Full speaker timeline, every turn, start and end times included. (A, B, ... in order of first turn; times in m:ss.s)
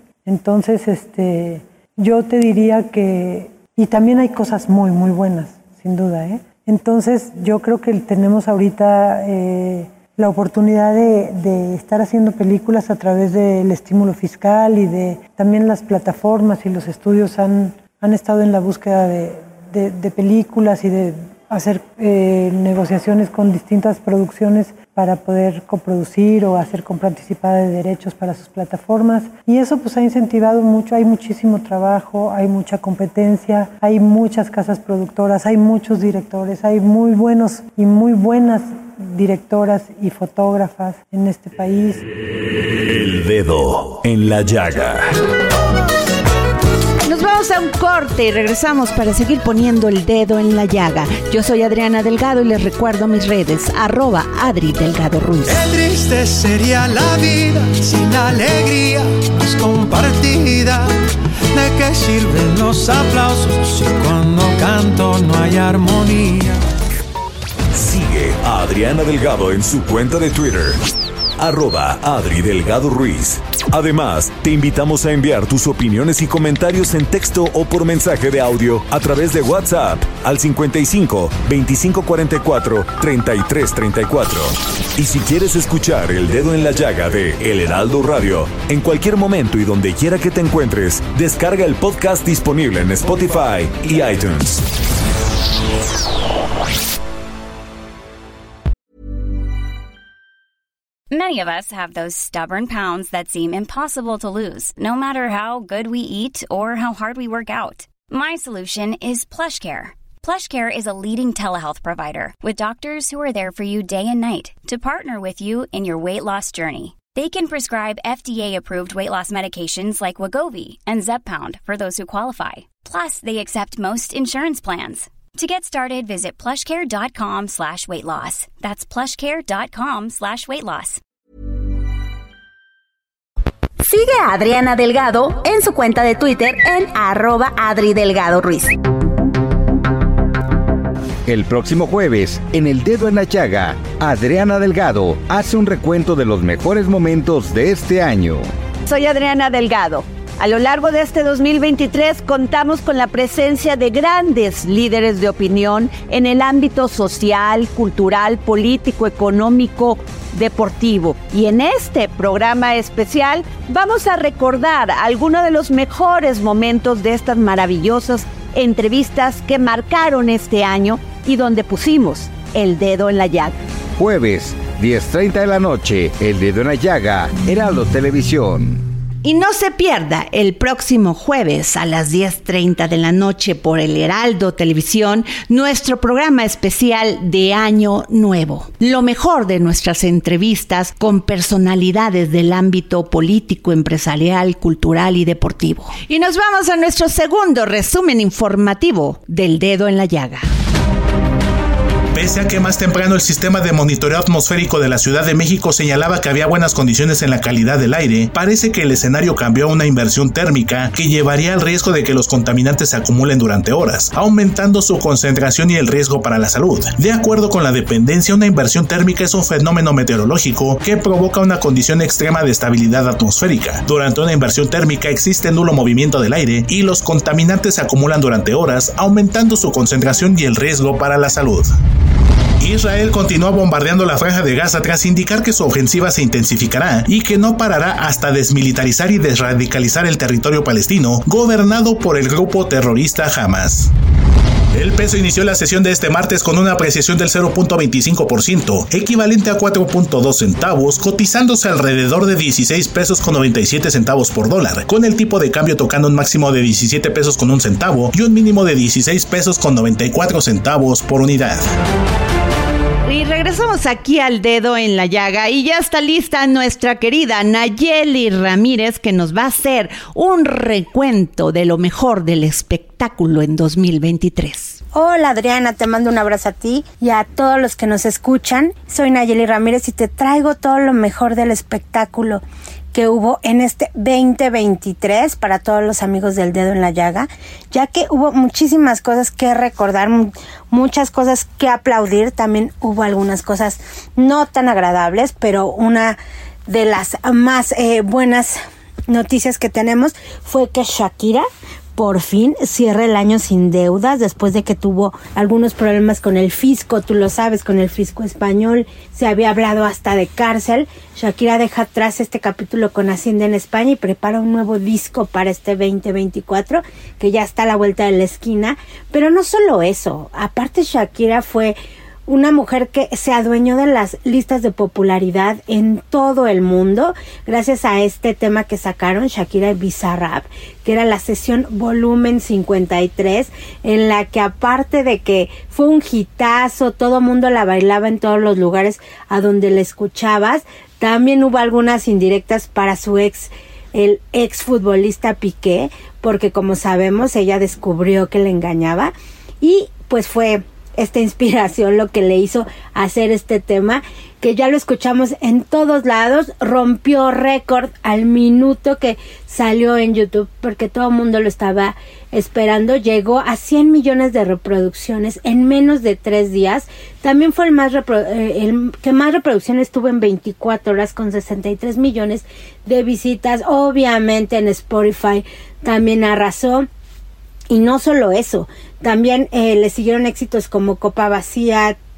0:00.2-0:42.0 A
0:42.8-0:45.1 B
0:47.0-0:55.6 C
0:55.4-1:01.0 D
1:01.5-1:06.6 D
1:07.7-1:10.8 B
1:11.4-1:34.6 B
1:41.1-2:11.0 E
2:13.9-2:18.7 F
2:21.2-2:28.4 G
2:28.9-2:53.5 C
2:54.0-2:58.8 G
2:59.2-3:20.5 C
3:22.1-3:51.7 H
3:52.6-4:03.9 H
4:04.7-4:21.6 H
4:23.0-4:34.8 C
4:34.9-5:21.8 I
5:22.3-6:16.9 I
6:17.7-6:22.0 I